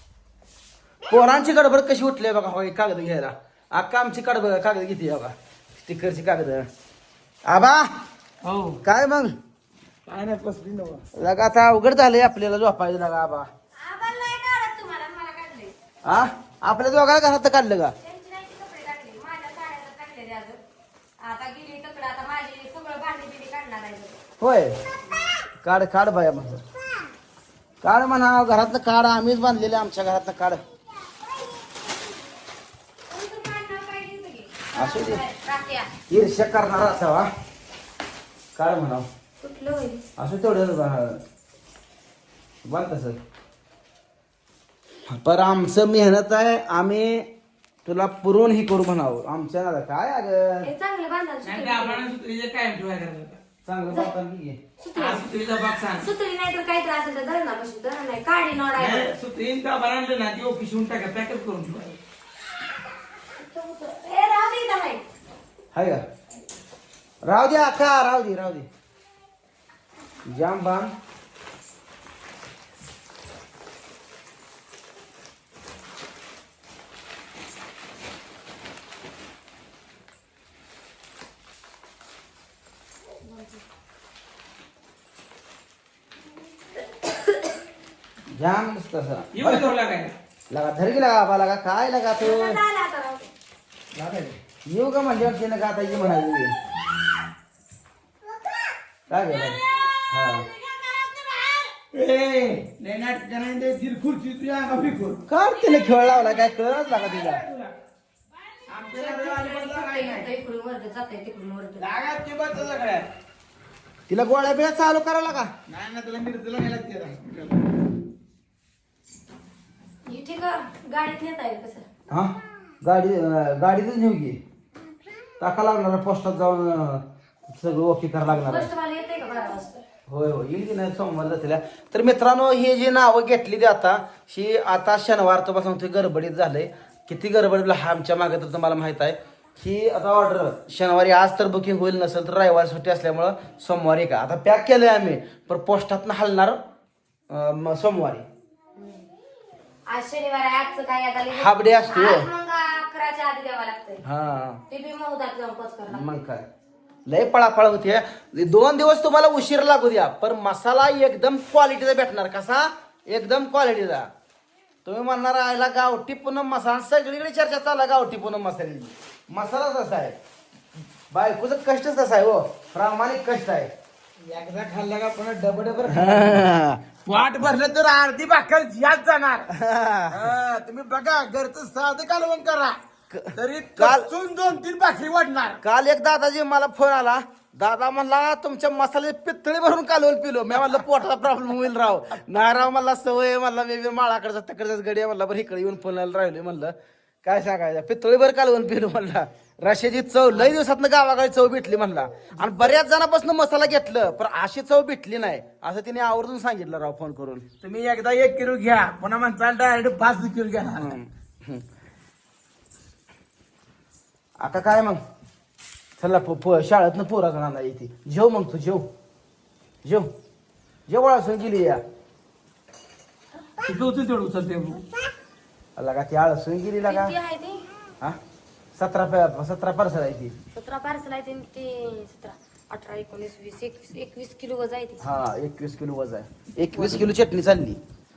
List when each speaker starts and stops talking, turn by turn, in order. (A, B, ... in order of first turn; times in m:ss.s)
0:01.1-0:06.7 A
0:07.5-0:07.9 A
0:08.4-0:08.8 B
0:08.8-0:09.4 A
0:10.1-0:11.0 B
0:11.1-0:13.5 A
0:13.8-0:15.7 C
0:16.0-0:17.9 A
0:18.0-0:20.6 C
0:21.2-0:24.2 C
0:24.4-0:24.8 A
0:25.6-0:26.6 A
0:27.8-0:30.6 A
0:33.1-0:35.9 C
0:34.8-0:35.2 A
0:36.1-0:37.3 A
0:38.6-0:39.1 A
0:39.4-0:40.0 C
0:40.2-0:41.2 A
0:42.7-0:43.2 A
0:45.1-0:47.3 A
0:47.8-0:50.7 A
0:50.6-0:52.1 C
0:51.4-0:53.4 B
0:53.6-0:54.6 A
0:54.8-0:55.2 C
0:55.0-0:56.1 B
0:56.0-0:59.1 C
0:58.8-1:02.0 B
1:03.4-1:05.0 C
1:05.7-1:06.0 A
1:07.2-1:08.7 A
1:10.2-1:10.9 A
1:28.3-1:29.7 A
1:29.3-1:30.2 B
1:30.5-1:32.6 A
1:32.2-1:33.3 C
1:33.9-1:34.4 B
1:34.6-1:36.5 A
1:39.1-1:40.5 A
1:41.9-1:45.2 B
1:45.3-1:47.4 A
1:48.7-1:50.3 B
1:48.8-1:51.8 C
1:51.8-1:53.1 B
1:54.1-1:55.5 A
1:55.7-1:57.6 B
2:00.1-2:01.9 C
2:02.1-2:04.4 A
2:05.4-2:08.7 A
2:08.4-2:09.8 C
2:10.1-2:26.6 A
2:27.3-2:28.3 A
2:28.8-2:29.1 C
2:29.9-2:34.0 C
2:31.3-2:32.3 A
2:34.0-2:34.6 A
2:34.7-2:36.0 C
2:35.9-2:36.5 A
2:37.1-2:44.1 A
2:44.8-2:50.2 A
2:51.1-2:53.7 A
2:54.2-2:56.4 B
2:55.8-2:56.8 A
2:57.0-2:59.5 B
2:59.5-3:00.2 A
3:00.1-3:02.8 B
3:03.1-3:04.1 A
3:03.4-3:05.6 B
3:05.6-3:27.5 A
3:27.6-3:30.9 B
3:30.7-3:31.6 A
3:34.4-3:35.0 A
3:36.0-3:38.9 A
3:39.8-3:40.1 A
3:40.9-3:41.8 A
3:43.6-3:44.8 B
3:45.8-3:47.1 A
3:46.9-3:47.6 C
3:48.8-3:50.4 A
3:50.5-3:55.0 C
3:55.0-3:57.8 A
3:56.7-3:57.1 C